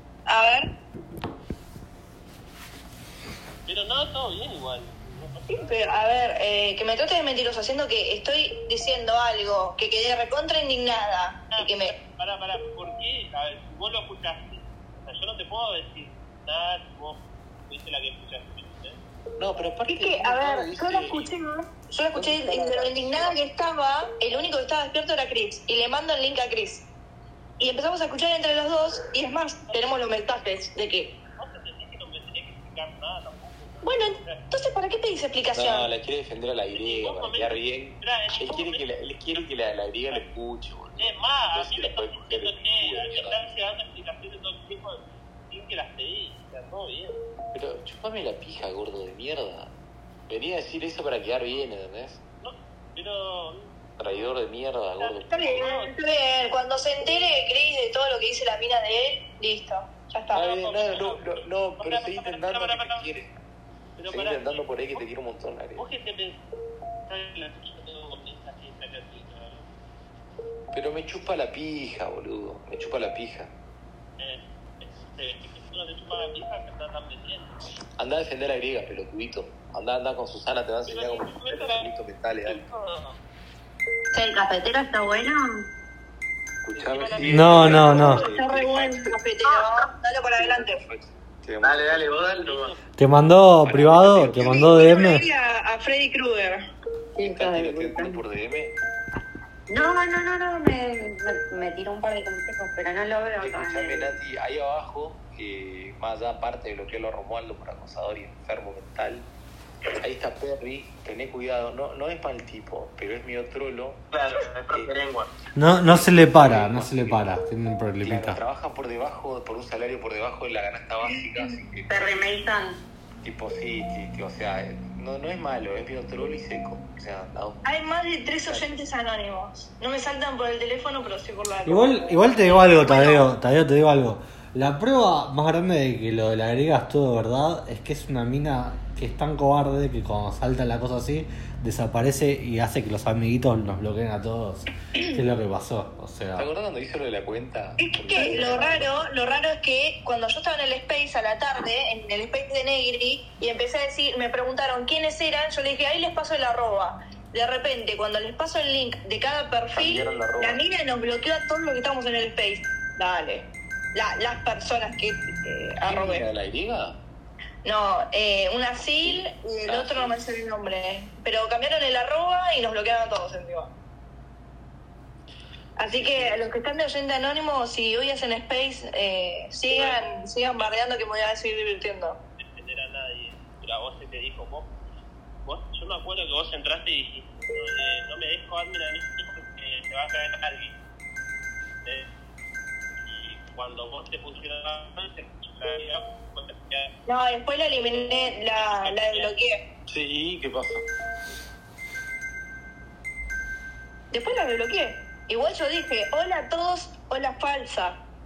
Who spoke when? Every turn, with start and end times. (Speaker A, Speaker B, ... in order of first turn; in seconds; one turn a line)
Speaker A: 0.3-0.7
Speaker B: 3.7-5.8
Speaker A: 5.5-12.0
Speaker B: 11.5-19.0
Speaker C: 19.4-21.3
Speaker A: 19.9-26.9
Speaker C: 22.1-23.4
Speaker A: 27.6-31.2
Speaker B: 31.4-34.4
Speaker A: 33.8-35.9
Speaker C: 35.5-43.4
Speaker B: 36.7-39.4
Speaker B: 41.0-47.2
Speaker C: 47.5-49.7
Speaker C: 50.3-52.2
Speaker B: 52.4-53.7
Speaker C: 54.0-55.5
Speaker B: 55.0-55.9
Speaker A: 55.3-60.5
Speaker C: 60.3-63.3
Speaker B: 60.4-63.1
Speaker B: 64.0-65.1
Speaker C: 64.1-65.8
Speaker B: 65.8-66.4
Speaker B: 67.1-69.7
Speaker C: 70.7-73.5
Speaker B: 74.2-77.5
Speaker C: 78.0-82.6
Speaker B: 80.9-81.9
Speaker B: 82.4-83.2
Speaker D: 84.1-85.7
Speaker C: 86.6-89.0
Speaker B: 86.7-88.3
Speaker E: 87.3-88.2
Speaker A: 87.9-90.8
Speaker C: 90.3-92.1
Speaker F: 91.6-92.7
Speaker B: 92.1-92.8
Speaker E: 93.0-95.3
Speaker C: 93.7-94.8
Speaker A: 94.4-96.6
Speaker D: 97.2-98.2
Speaker C: 97.2-98.8
Speaker D: 99.7-104.2
Speaker C: 103.4-109.3
Speaker C: 110.0-114.0
Speaker F: 114.1-115.3
Speaker E: 115.6-118.4
Speaker C: 115.8-117.4
Speaker C: 118.0-122.0
Speaker D: 121.1-122.8
Speaker C: 123.2-127.7
Speaker A: 127.7-133.2
Speaker C: 128.5-128.8
Speaker E: 131.7-146.5
Speaker C: 146.4-148.9
Speaker A: 147.8-166.3
Speaker C: 159.7-160.6
Speaker C: 165.8-167.0
Speaker A: 167.6-173.7
Speaker C: 169.0-170.2
Speaker A: 175.8-182.2
Speaker C: 175.9-176.5
Speaker B: 182.4-184.7
Speaker B: 185.4-190.8
Speaker B: 193.1-196.9
Speaker A: 197.1-199.6
Speaker B: 197.9-199.3
Speaker C: 199.9-200.8
Speaker A: 204.1-208.0